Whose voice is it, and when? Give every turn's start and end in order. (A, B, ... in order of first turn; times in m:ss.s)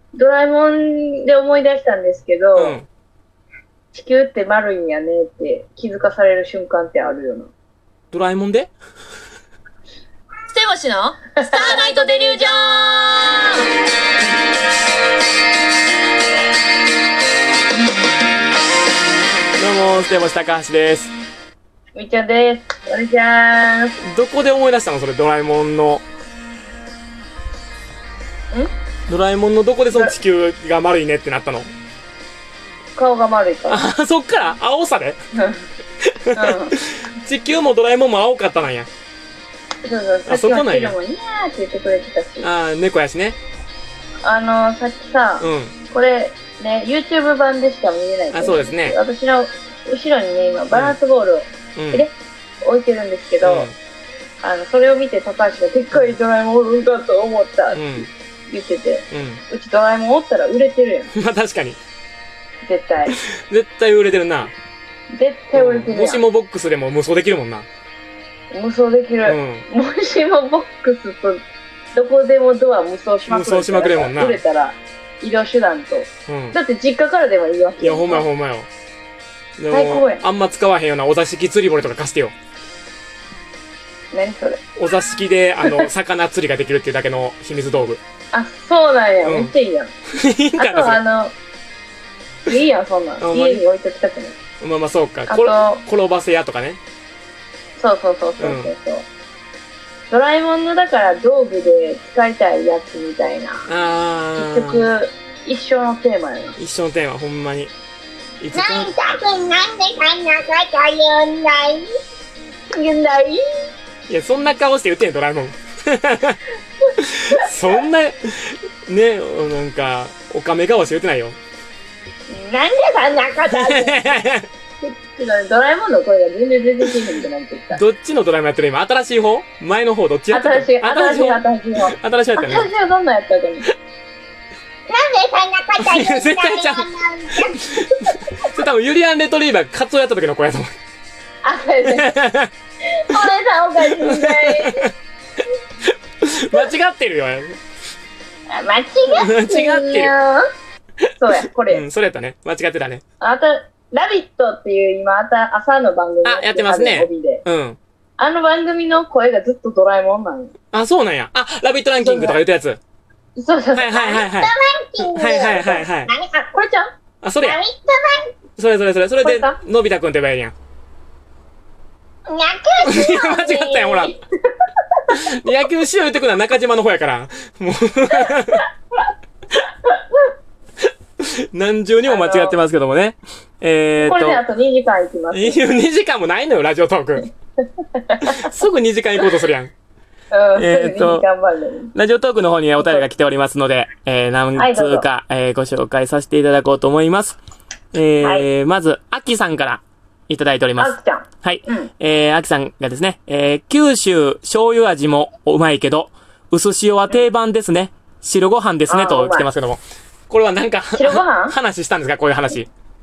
0:00.1-0:02.8 A
0:02.6-0:02.9 B
0:03.9-0:07.5 A
0:08.1-0:08.7 B
0:10.5-0:13.6 C
0:11.4-0:12.4 A
0:11.6-0:11.9 D
0:19.6-0:21.1 B
0:21.9-0:24.0 A
0:24.0-0:26.0 B
0:29.1-0:31.7 B
0:33.0-0:33.8 A
0:33.7-0:35.2 B
0:35.3-0:35.7 A
0:36.0-0:38.9 B
0:36.3-0:36.8 A
0:39.8-0:42.5 A
0:40.3-0:41.0 B
0:42.4-0:43.4 B
0:44.2-0:53.7 A
0:45.4-0:45.8 B
0:48.3-0:49.0 B
0:50.7-0:51.0 B
0:51.8-0:52.0 B
0:53.4-0:53.8 B
0:54.4-1:01.1 A
0:57.7-0:58.1 B
0:59.1-0:59.4 B
1:01.1-1:01.8 B
1:02.6-1:03.2 A
1:03.1-1:04.5 B
1:05.1-1:06.2 A
1:05.5-1:07.7 B
1:08.5-1:11.4 A
1:09.2-1:09.7 B
1:11.9-1:18.3 A
1:13.3-1:14.4 B
1:16.3-1:16.6 B
1:17.8-1:18.7 B
1:19.6-1:22.3 B
1:19.7-1:20.2 A
1:24.1-1:24.6 A
1:24.8-1:28.0 B
1:28.3-1:29.9 A
1:29.2-1:29.5 B
1:30.2-1:31.0 B
1:30.6-1:31.4 A
1:32.5-1:34.4 A
1:33.2-1:33.6 B
1:34.6-1:36.8 B
1:35.3-1:35.8 A
1:37.8-1:39.1 A
1:38.4-1:38.7 B
1:40.1-1:43.7 A
1:43.7-1:44.9 B
1:44.4-1:46.6 A
1:46.6-1:47.7 B
1:48.4-1:48.9 B
1:48.6-1:51.9 D
1:52.7-1:53.4 A
1:54.1-1:56.4 B
1:57.0-2:01.4 B
2:02.3-2:04.2 A
2:03.5-2:04.5 B
2:04.8-2:07.8 A
2:07.7-2:12.7 B
2:10.3-2:13.7 A
2:14.9-2:17.5 D
2:15.8-2:20.7 B
2:21.4-2:22.2 A
2:21.8-2:22.5 B
2:22.9-2:24.9 A
2:23.8-2:24.9 B
2:25.8-2:27.6 B
2:28.5-2:30.4 A
2:29.1-2:30.1 B
2:31.0-2:33.0 B
2:31.2-2:31.8 A
2:33.2-2:37.4 A
2:36.2-2:37.8 B
2:38.2-2:40.5 A
2:40.7-2:42.8 B
2:42.0-2:42.4 A
2:43.4-2:44.2 A
2:43.7-2:46.1 B
2:44.1-2:46.5 D
2:46.5-2:46.8 A
2:47.2-2:47.6 B
2:47.4-2:48.3 D
2:48.6-2:50.5 B
2:49.2-2:49.6 A
2:52.3-2:53.6 D
2:52.8-2:54.2 B
2:52.9-2:54.2 A
2:55.1-2:58.7 B
2:59.8-3:00.2 A
3:01.2-3:04.4 B
3:02.1-3:02.6 A
3:04.0-3:05.6 A
3:05.3-3:07.2 B
3:07.8-3:08.5 A
3:08.3-3:09.7 B
3:10.3-3:11.9 A
3:10.6-3:11.3 B
3:11.9-3:17.4 B
3:12.8-3:13.1 A
3:14.6-3:15.1 A
3:17.9-3:32.7 B
3:18.2-3:18.5 A
3:20.8-3:21.9 A
3:28.9-3:29.5 A
3:31.0-3:31.6 A